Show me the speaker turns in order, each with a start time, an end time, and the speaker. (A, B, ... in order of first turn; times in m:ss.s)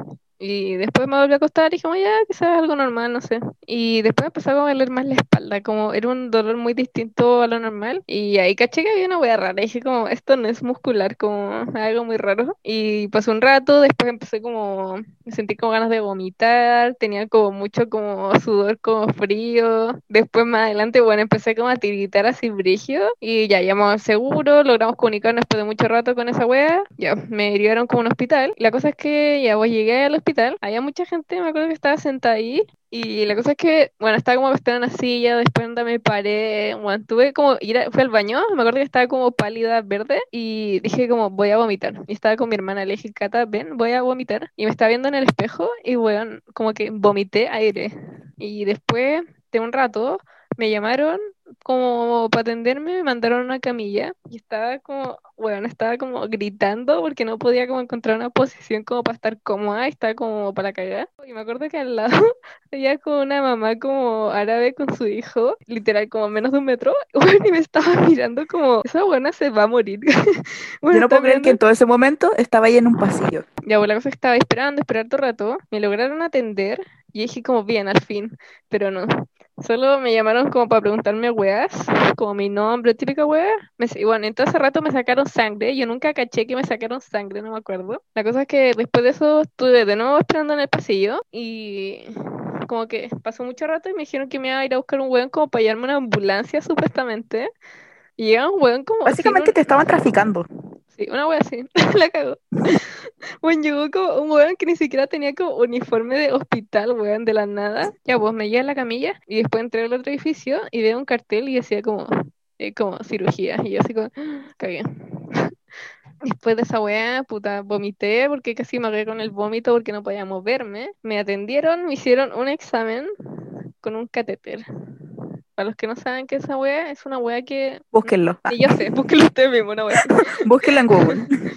0:00.4-1:02.1 A
1:02.7-1:10.1 A
1:10.8-1:11.6 A
1:10.9-1:13.4 B
1:13.7-1:19.1 A
1:19.6-1:32.1 A
1:32.7-1:37.5 A
1:38.2-1:39.6 A
1:39.0-1:40.5 B
1:40.9-1:55.5 A
1:56.2-2:03.1 A
2:03.8-2:04.6 A
2:05.6-2:10.2 A
2:07.9-2:08.8 B
2:10.4-2:11.3 B